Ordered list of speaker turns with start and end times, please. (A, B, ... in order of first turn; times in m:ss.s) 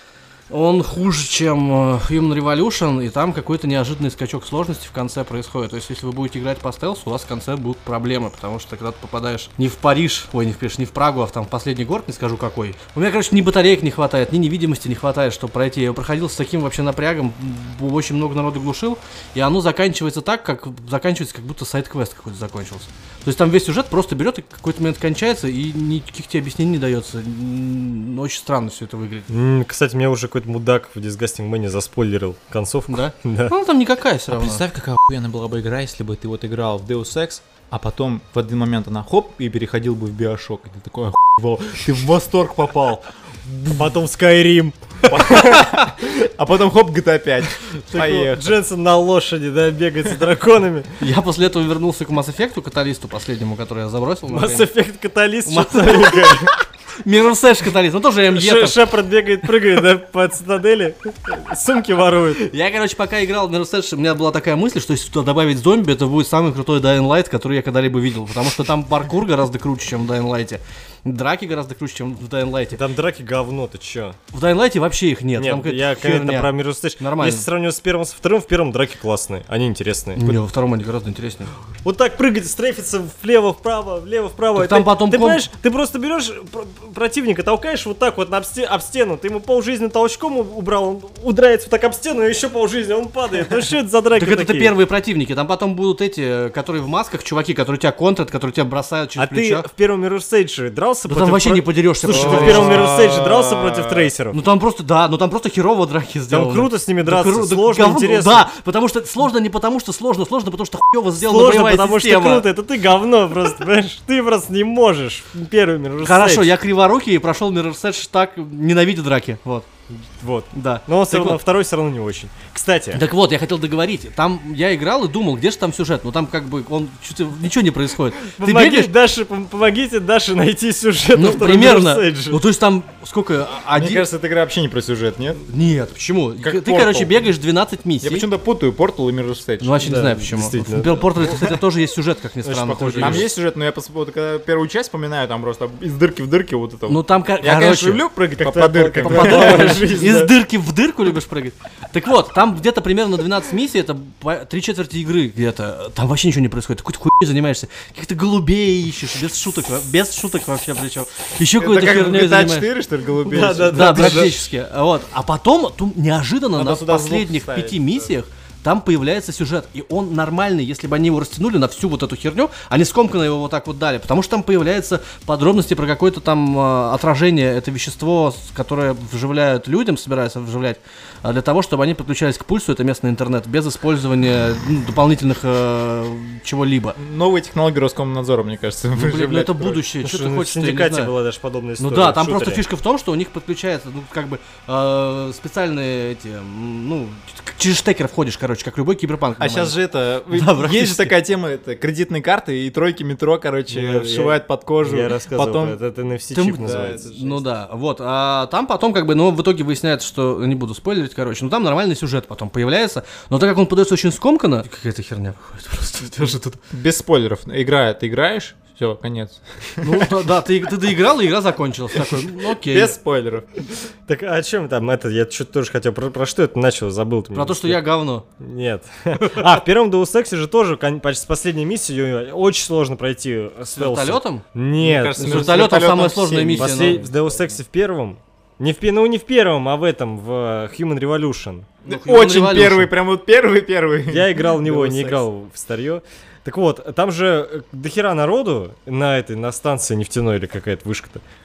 0:00.5-0:29.3 A
0:29.3-0:33.5 B
0:32.9-0:34.6 A
0:34.3-0:43.9 C
0:43.8-0:45.7 B
0:45.0-0:48.6 C
0:47.9-0:50.9 B
0:51.0-0:54.7 A
0:54.3-0:56.5 B
0:55.4-0:58.9 A
0:58.3-1:02.4 B
1:02.3-1:12.8 A
1:12.7-1:14.2 B
1:14.3-1:17.4 A
1:15.4-1:20.2 B
1:20.1-1:21.5 A
1:21.8-1:34.7 B
1:24.6-1:25.4 A
1:34.2-1:39.7 A
1:39.2-1:44.4 B
1:41.1-1:42.9 A
1:42.1-1:44.1 C
1:44.3-1:52.4 A
1:46.3-1:48.4 B
1:51.2-1:56.5 B
1:56.0-1:59.7 A
1:59.9-2:03.0 B
2:00.5-2:01.4 A
2:02.9-2:08.9 A
2:08.2-2:12.4 B
2:11.1-2:14.0 A
2:13.7-2:15.4 C
2:15.5-2:18.3 A
2:16.4-2:17.2 C
2:18.0-2:20.0 C
2:19.6-2:23.3 A
2:19.8-2:21.5 B
2:22.4-2:23.3 B
2:22.9-2:30.0 C
2:26.9-2:28.0 A
2:28.4-2:30.3 B
2:29.0-2:42.7 A
2:41.6-2:44.4 C
2:43.3-2:44.4 B
2:43.5-3:07.0 A
2:46.6-2:48.1 C
3:07.0-3:09.8 C
3:08.9-3:11.1 A
3:10.0-3:12.6 B
3:11.8-3:21.1 A
3:19.4-3:25.8 C
3:23.7-3:27.1 B
3:26.3-3:36.6 A
3:26.6-3:27.4 C
3:36.7-3:40.1 C
3:39.8-3:43.0 A
3:42.5-3:43.5 C
3:44.1-3:47.8 B
3:47.3-3:48.2 A
3:48.4-3:55.8 B
3:49.2-3:49.5 A
3:53.7-3:54.4 A
3:54.8-3:57.6 C
3:55.2-3:57.1 A
3:56.6-4:01.7 B
4:01.8-4:05.2 C
4:01.8-4:02.9 A
4:04.1-4:11.2 B